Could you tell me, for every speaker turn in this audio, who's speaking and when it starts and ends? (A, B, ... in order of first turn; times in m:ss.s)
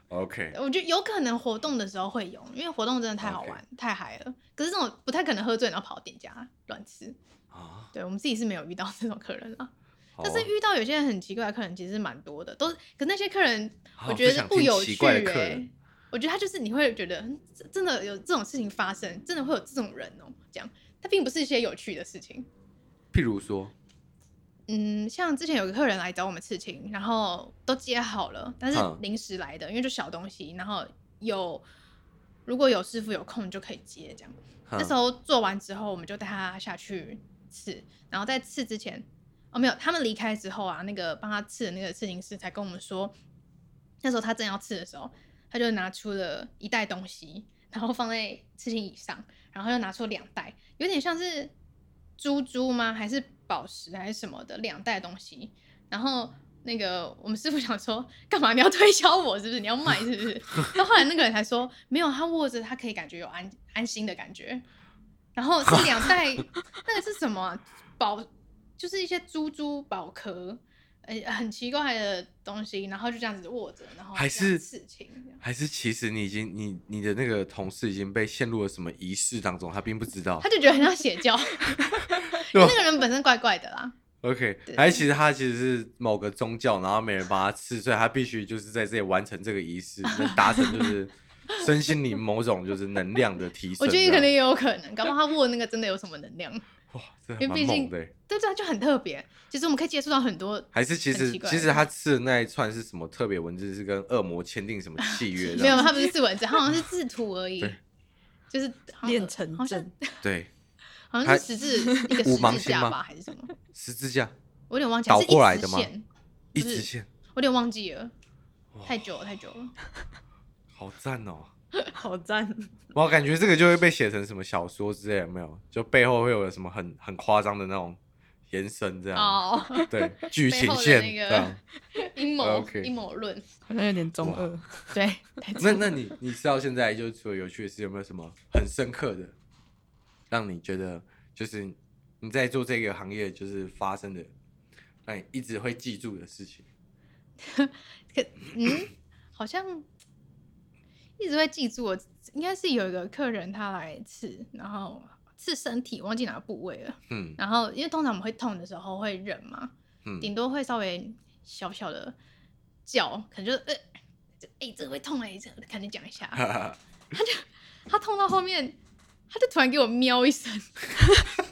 0:00.1-0:00.6 A
0:00.5-0:07.2 B
0:03.2-0:03.6 A
0:07.5-0:07.9 A
0:07.9-0:22.5 B
0:10.2-0:10.5 A
0:14.0-0:15.7 A
0:23.1-0:23.7 A
0:24.7-0:31.6 B
0:28.7-0:29.0 A
0:32.4-0:43.1 B
0:34.7-0:34.9 A
0:44.0-0:51.5 B
0:52.2-1:04.6 B
1:05.3-1:15.4 B
1:14.1-1:14.6 A
1:15.4-1:20.5 A
1:20.4-1:24.0 B
1:22.3-1:22.8 A
1:24.2-1:34.3 A
1:24.7-1:25.0 B
1:33.8-1:36.6 B
1:36.9-1:38.1 A
1:37.4-1:41.8 B
1:40.7-1:45.9 A
1:45.0-1:47.8 B
1:45.6-1:46.1 C
1:48.5-1:50.2 B
1:49.0-1:49.9 C
1:50.2-1:50.5 A
1:51.1-1:53.5 B
1:52.0-1:53.0 A
1:53.7-1:54.3 A
1:54.7-1:58.1 B
1:55.0-1:55.9 A
1:56.5-1:57.1 A
1:58.7-1:59.2 A
1:58.8-1:59.7 B
2:00.7-2:01.5 A
2:01.9-2:02.8 C
2:02.9-2:08.0 A
2:08.5-2:11.6 A
2:09.1-2:13.4 B
2:09.7-2:10.0 C
2:12.4-2:12.9 A
2:13.7-2:15.0 C
2:14.2-2:14.5 A
2:14.9-2:15.9 B
2:15.6-2:19.3 A
2:20.3-2:24.3 A
2:25.0-2:26.7 A
2:27.4-2:29.9 B
2:31.2-2:42.2 B
2:37.1-2:37.4 A
2:40.0-2:40.3 A
2:42.8-2:43.8 B
2:44.4-2:46.5 B
2:46.3-2:46.8 A
2:47.1-2:48.8 B
2:49.3-2:50.8 B